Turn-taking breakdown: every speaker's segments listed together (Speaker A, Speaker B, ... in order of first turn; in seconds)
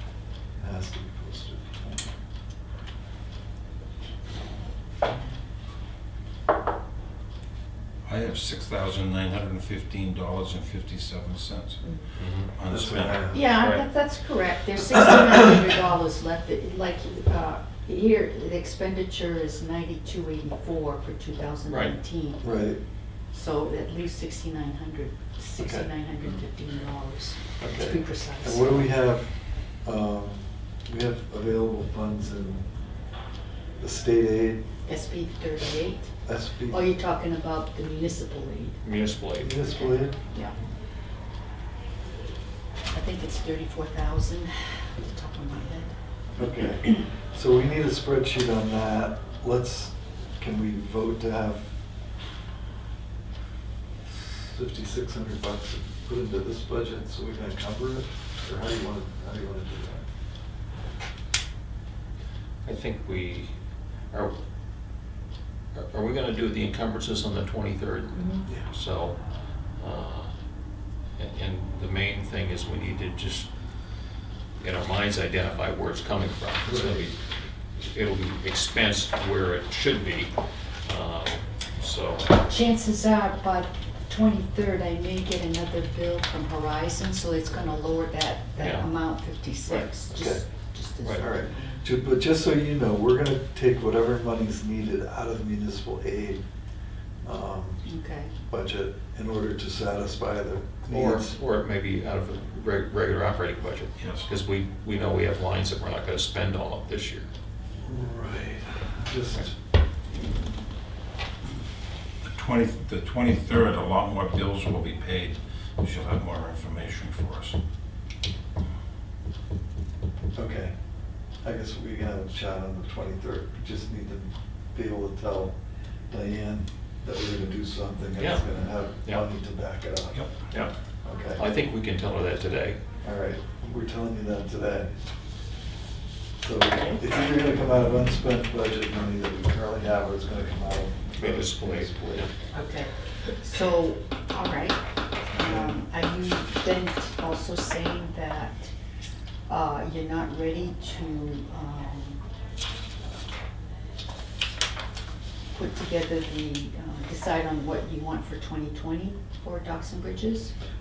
Speaker A: 0.6-2.1, 12.7-13.5, 22.4-22.8, 25.6-25.9, 27.6-29.3, 29.8-32.7, 33.8-34.6, 36.2-36.8, 39.4-40.2, 46.3-51.6, 54.1-60.0, 76.7-77.0, 90.1-90.4, 91.1-96.4, 97.2-97.9, 98.4-101.4, 107.9-109.5, 120.3-120.7, 121.4-125.5, 126.1-130.3, 131.0-131.4, 133.0-134.9, 136.4-142.3, 145.3-145.8
Speaker B: 8.1-11.9, 12.5-13.2, 104.0-104.3, 112.2-117.6
Speaker C: 12.2-12.5, 13.5-13.8, 21.7-21.9, 38.8-39.5, 62.6-63.5, 65.7-69.2, 69.8-70.3, 71.2-73.5, 74.6-77.2, 77.8-80.3, 80.8-82.3, 88.6-88.9, 100.9-107.3, 128.2-128.5, 131.3-132.8, 141.2-142.3
Speaker D: 13.3-22.6, 23.3-28.9, 34.9-36.1, 36.7-38.8, 39.6-40.5, 42.9-45.9, 82.4-91.8, 97.8-98.3, 142.5-148.7, 149.5-152.2, 155.5-160.5